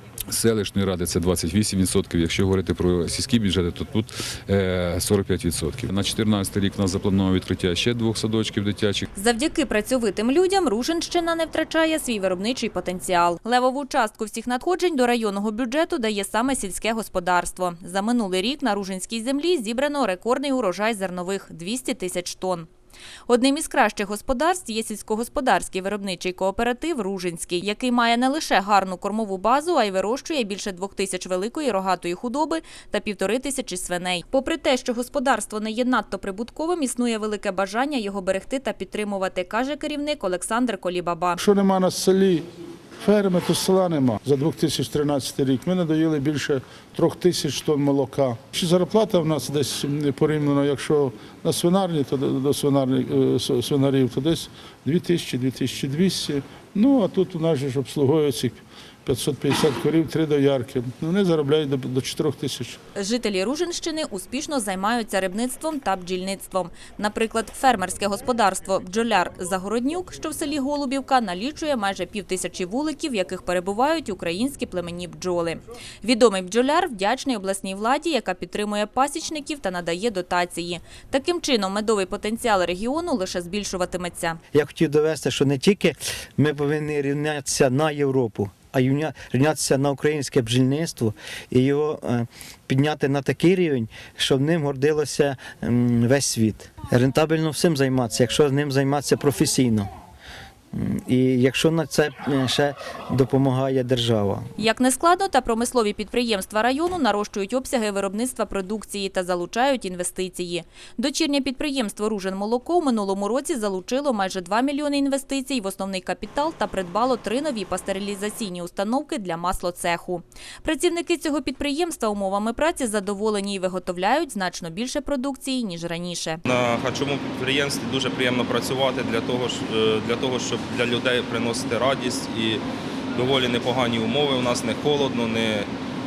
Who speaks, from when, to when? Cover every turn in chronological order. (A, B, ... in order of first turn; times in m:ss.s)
0:00.3-0:09.1 A
0:09.2-0:22.7 B
0:23.3-0:41.4 B
0:41.4-0:42.4 C
0:43.0-1:02.8 C
1:03.0-1:24.4 B
1:24.5-1:39.9 D
1:40.7-1:44.5 D
1:44.6-2:06.4 B
2:06.5-2:12.6 E
2:13.2-2:15.7 E